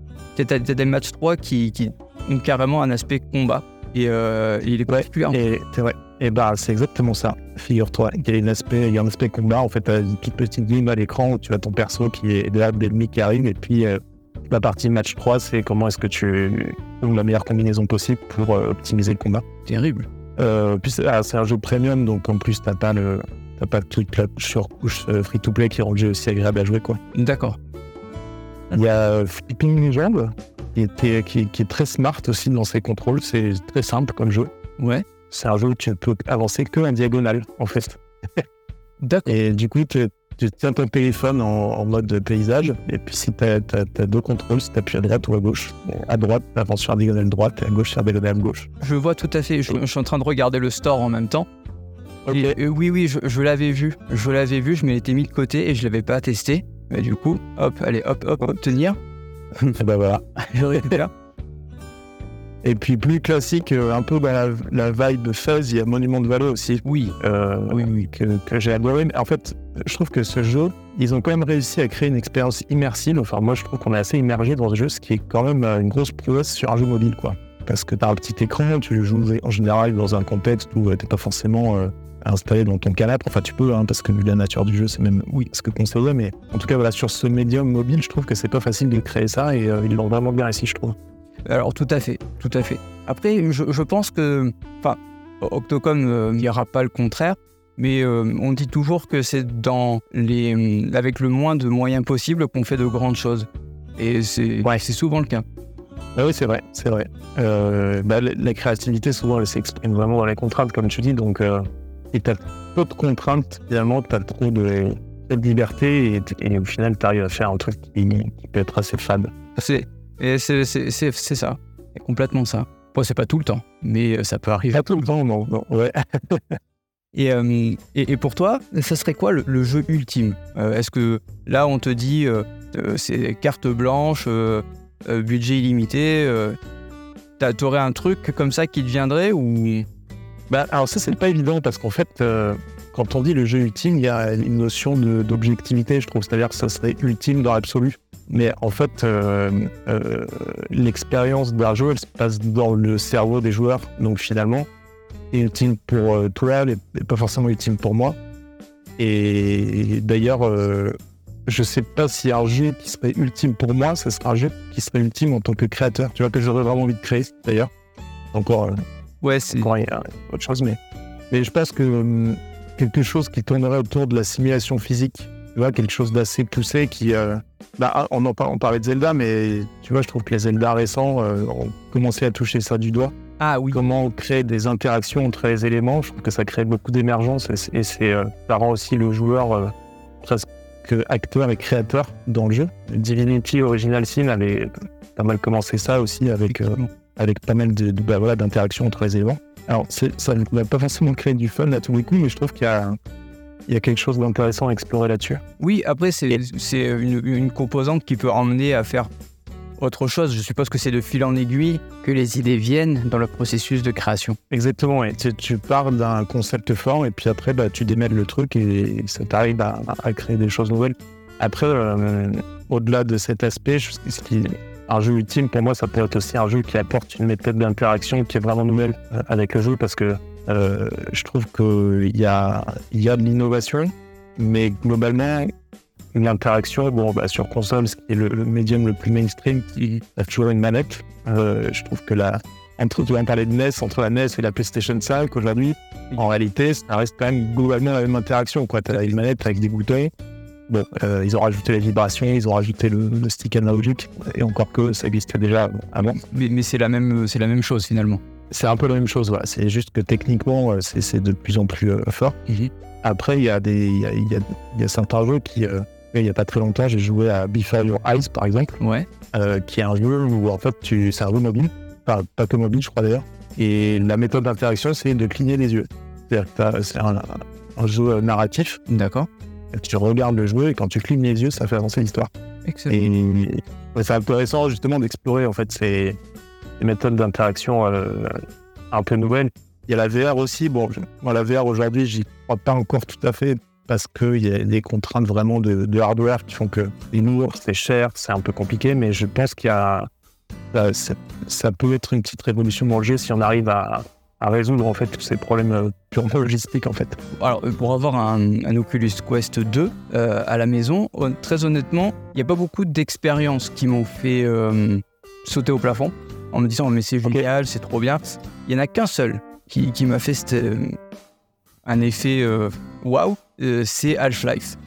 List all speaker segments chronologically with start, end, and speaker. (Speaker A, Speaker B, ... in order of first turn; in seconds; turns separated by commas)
Speaker A: 0.3-5.4, Speaker B: 4.9-19.4, Speaker A: 19.7-20.0, Speaker B: 20.4-27.0, Speaker A: 27.1-27.6, Speaker B: 28.7-34.5, Speaker A: 34.8-35.0, Speaker B: 35.3-38.4, Speaker A: 39.0-39.3, Speaker B: 39.3-48.7, Speaker A: 48.8-51.5, Speaker B: 52.3-52.6, Speaker A: 52.3-59.0, Speaker B: 59.8-61.0, Speaker A: 60.8-61.1, Speaker B: 62.6-91.0, Speaker A: 66.8-67.1, Speaker A: 67.7-68.0, Speaker A: 91.5-105.4, Speaker B: 106.2-119.3, Speaker A: 119.6-124.8, Speaker B: 124.7-126.6, Speaker A: 127.1-136.6, Speaker A: 137.4-139.8, Speaker B: 140.5-154.7, Speaker B: 155.3-158.2, Speaker B: 159.0-167.7, Speaker B: 168.3-168.8, Speaker A: 169.2-169.7, Speaker B: 169.5-170.8, Speaker B: 171.3-183.1, Speaker A: 183.4-183.8, Speaker B: 183.7-203.0, Speaker A: 196.5-196.9, Speaker B: 203.7-205.4, Speaker A: 205.6-209.1, Speaker A: 209.8-214.3, Speaker B: 214.5-235.5, Speaker B: 236.1-250.1, Speaker B: 250.7-256.2, Speaker A: 256.3-258.2, Speaker B: 258.5-262.4, Speaker B: 263.0-268.7, Speaker B: 269.3-278.8, Speaker A: 278.9-279.3, Speaker B: 279.7-282.3, Speaker A: 282.7-283.0, Speaker B: 282.9-286.2, Speaker B: 286.8-288.4, Speaker B: 288.9-300.1, Speaker B: 300.7-307.2, Speaker A: 307.4-320.9, Speaker A: 321.9-324.8